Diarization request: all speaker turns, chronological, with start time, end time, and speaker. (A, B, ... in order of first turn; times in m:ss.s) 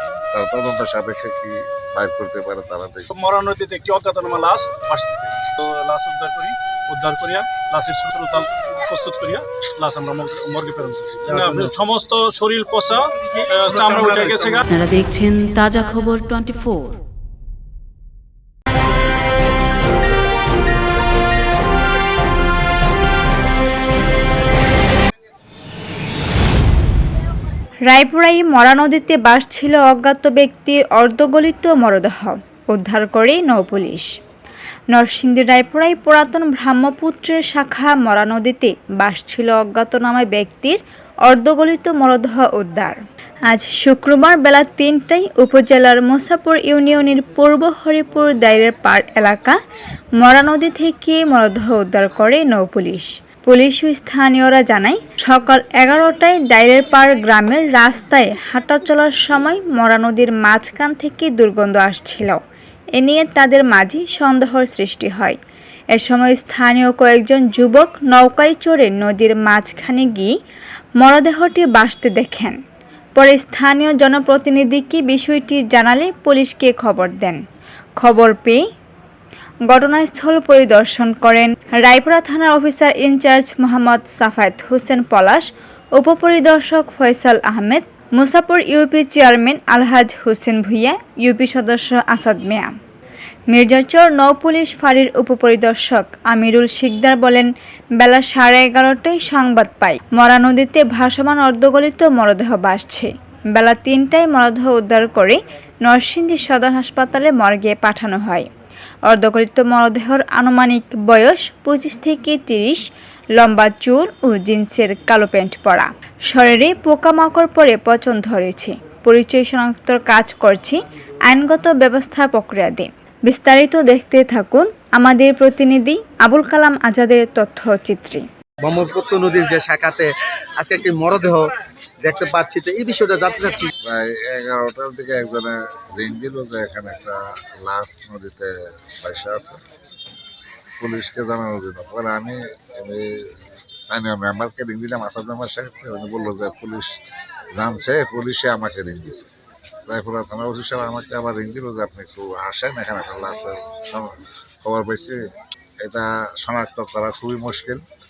0:00.3-0:03.1 A
0:03.1-0:14.6 B
0:11.2-0:11.7 C
0:14.0-0:17.0 D
0:27.9-0:34.1 E
0:34.9-0:49.6 E
0:50.2-1:02.4 E
1:03.0-1:05.4 E
1:05.9-1:10.3 E
1:11.0-1:12.6 E
1:13.2-1:17.4 E
1:18.0-1:18.6 E
1:19.7-1:32.7 E
1:33.5-1:48.5 E
1:49.1-1:52.8 E
1:53.4-2:08.2 E
2:08.6-2:11.5 C
2:12.0-2:13.7 C
2:13.8-2:19.6 A
2:20.8-2:23.1 A
2:23.9-2:26.9 A
2:27.6-2:29.3 A
2:29.9-2:34.1 A
2:34.6-2:35.2 A
2:35.8-2:37.8 A